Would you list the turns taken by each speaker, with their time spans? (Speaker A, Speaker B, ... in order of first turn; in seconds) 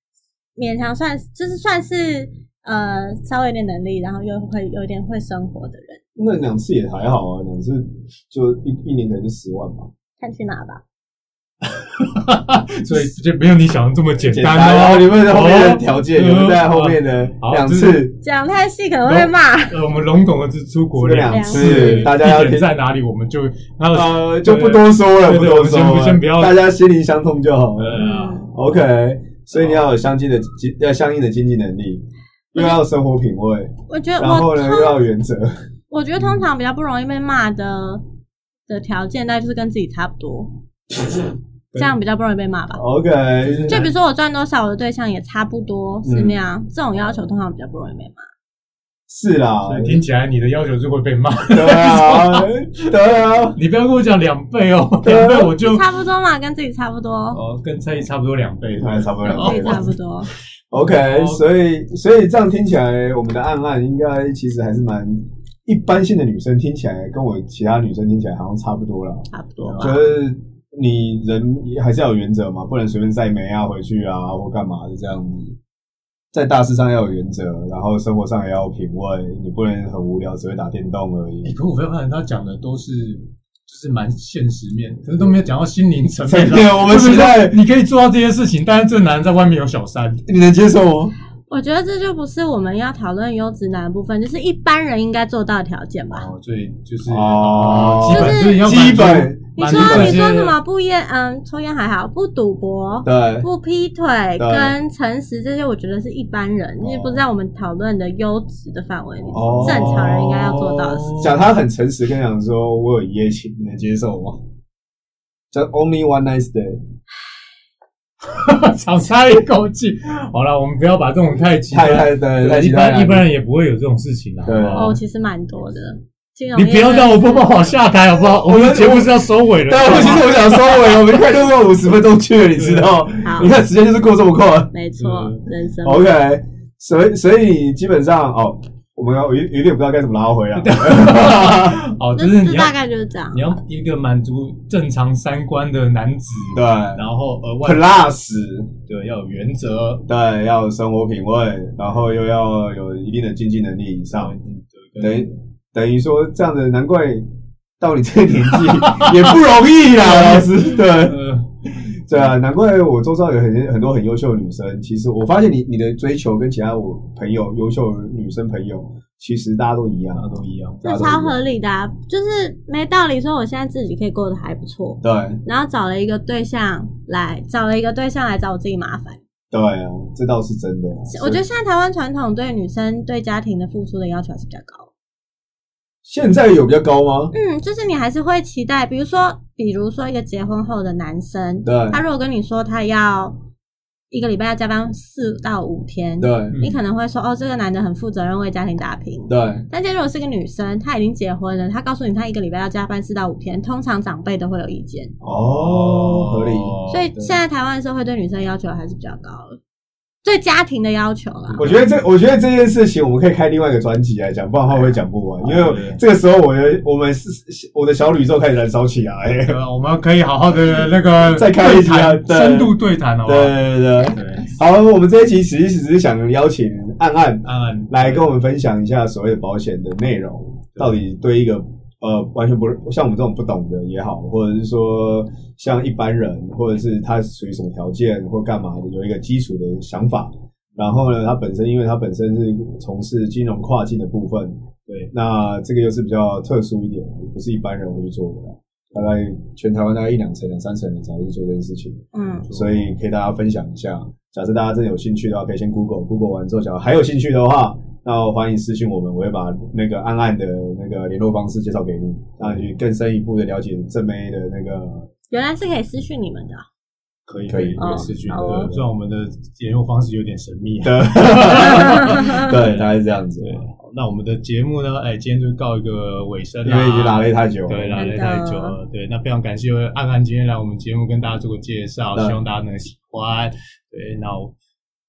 Speaker A: 0.6-6.0, 10.2-10.8, 18.2-19.9, 21.3-22.1, 28.0-28.5, 32.5-32.8, 33.9-35.0, 35.9-38.0, 38.7-40.6, 41.7-42.8, 43.7-48.3, 55.6-57.4, 59.2-60.3, 69.3-70.0, 91.5-96.3, 98.0-98.9, 99.6-111.1, 124.8-127.7, 133.2-133.5, 134.7-136.1, 142.2-143.6, 170.8-179.2, 181.1-184.9, 187.3-193.4, 194.1-205.1, 206.9-209.6, 210.2-211.7, 252.1-252.5, 265.3-266.6, 267.8-268.7, 272.0-272.4, 277.9-278.8
Speaker B: 6.2-9.9, 14.2-18.1, 20.9-22.7, 23.9-35.5, 42.7-43.8, 46.0-46.4, 49.1-50.0, 51.5-53.6, 55.0-55.5, 58.8-59.9, 60.7-75.6, 76.3-81.5, 86.2-87.6, 90.3-91.2, 97.0-100.3, 103.0-103.5, 104.4-104.8, 106.8-107.2, 109.3-114.4, 115.5-116.8, 121.7-123.3, 124.4-125.0, 128.3-134.7, 135.8-141.8, 146.5-147.0, 147.6-148.7, 150.1-154.4, 155.0-157.3, 157.8-161.2, 162.1-171.4, 175.0-175.4, 179.5-181.4, 186.0-187.3, 191.7-192.0, 196.2-196.6, 199.3-199.7, 205.2-207.4, 211.6-219.6, 220.7-265.1, 267.5-268.9, 270.8-273.6, 276.6-278.1, 282.1-282.4
Speaker C: 11.8-18.0, 19.1-26.6, 27.8-28.5, 29.5-29.9, 43.4-43.9, 49.6-52.5, 53.5-55.9, 57.3-60.0, 60.8-61.4, 81.4-90.2, 96.1-100.6, 109.4-111.4, 118.2-125.0, 126.5-131.3, 132.6-133.5, 135.0-135.5, 140.6-142.8, 143.3-147.9, 148.8-150.1, 154.2-155.4, 158.5-159.4, 159.9-162.3, 170.1-170.8, 196.5-196.8, 205.3-207.0, 211.5-212.0, 215.4-216.0, 219.4-224.6, 227.4-228.3, 252.5-252.9, 267.3-284.5